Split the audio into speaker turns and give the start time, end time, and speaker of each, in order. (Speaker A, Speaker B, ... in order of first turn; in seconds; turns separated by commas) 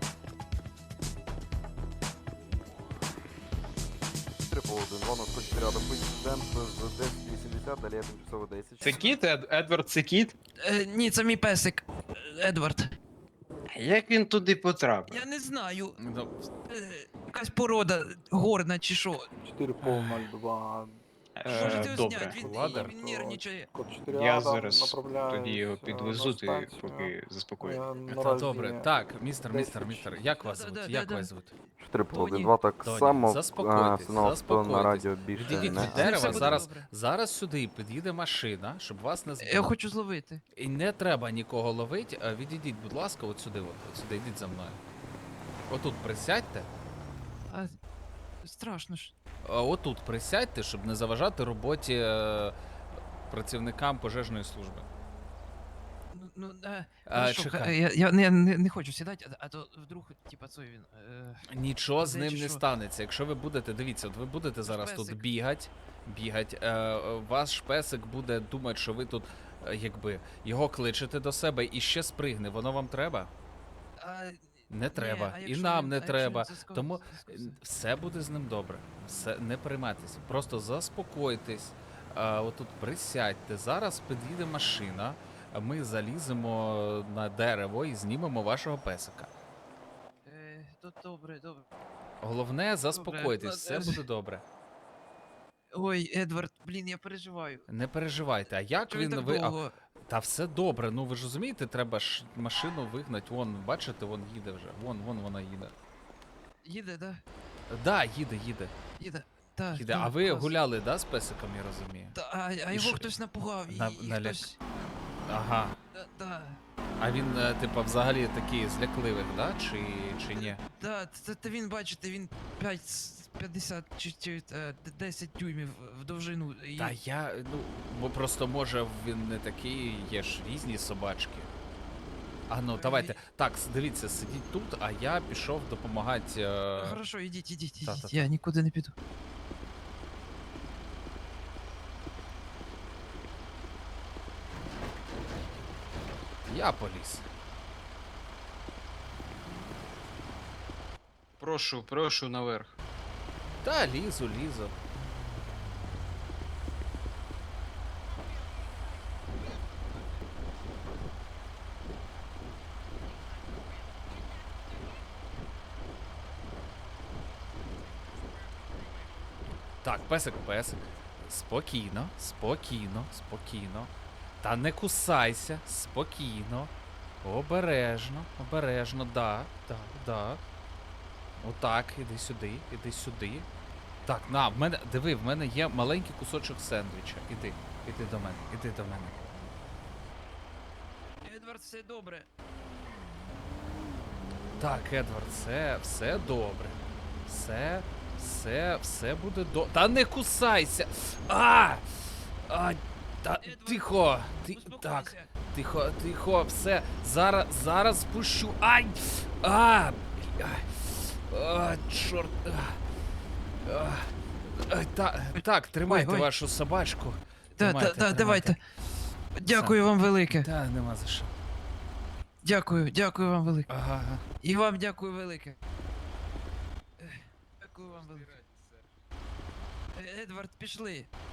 Speaker A: 4.4-9.0, Speaker B: 8.8-10.3, Speaker C: 8.8-9.2, Speaker C: 10.6-12.9, Speaker B: 13.7-15.2, Speaker C: 15.1-16.0, Speaker D: 16.0-16.3, Speaker C: 16.7-19.3, Speaker E: 19.4-21.0, Speaker D: 19.8-20.2, Speaker B: 21.4-22.4, Speaker C: 21.5-23.7, Speaker D: 21.5-22.9, Speaker E: 22.6-28.9, Speaker B: 24.1-28.3, Speaker D: 28.2-31.5, Speaker E: 29.5-30.3, Speaker C: 30.4-31.3, Speaker A: 31.8-36.6, Speaker C: 32.1-32.5, Speaker D: 32.8-39.7, Speaker C: 35.5-36.9, Speaker C: 39.4-40.4, Speaker D: 40.6-44.8, Speaker D: 45.7-46.7, Speaker C: 47.5-47.8, Speaker C: 48.4-49.1, Speaker D: 49.4-52.6, Speaker D: 53.3-54.9, Speaker C: 56.1-61.5, Speaker D: 57.1-57.8, Speaker D: 61.5-73.3, Speaker C: 62.0-62.6, Speaker C: 64.7-65.2, Speaker C: 74.0-77.6, Speaker D: 74.7-89.3, Speaker C: 90.2-91.7, Speaker D: 92.2-94.4, Speaker C: 92.9-94.0, Speaker C: 95.7-97.7, Speaker D: 97.7-105.7, Speaker C: 98.9-99.8, Speaker C: 106.6-107.2, Speaker D: 107.7-108.7, Speaker C: 109.0-110.5, Speaker D: 109.7-112.2, Speaker C: 112.1-114.6, Speaker D: 112.7-113.1, Speaker D: 113.7-114.5, Speaker D: 115.3-115.8, Speaker C: 115.9-116.6, Speaker D: 117.0-120.6, Speaker C: 120.3-127.0, Speaker D: 126.8-131.5, Speaker D: 132.5-137.0, Speaker C: 132.8-133.2, Speaker C: 136.8-138.9, Speaker D: 137.8-138.1, Speaker D: 146.5-147.3, Speaker B: 151.4-152.8, Speaker D: 153.6-154.7, Speaker D: 169.8-173.9, Speaker D: 174.4-180.4, Speaker D: 181.4-183.5, Speaker D: 184.1-189.2, Speaker C: 191.2-192.3, Speaker D: 194.6-212.8, Speaker C: 203.4-205.3, Speaker D: 213.7-218.6, Speaker C: 215.4-216.3, Speaker C: 217.6-218.6, Speaker C: 219.4-220.5, Speaker D: 219.5-219.8, Speaker D: 220.3-221.3, Speaker C: 222.4-223.7, Speaker D: 223.7-224.2, Speaker C: 224.4-225.6, Speaker C: 227.0-228.3, Speaker B: 227.8-228.9, Speaker C: 229.9-231.1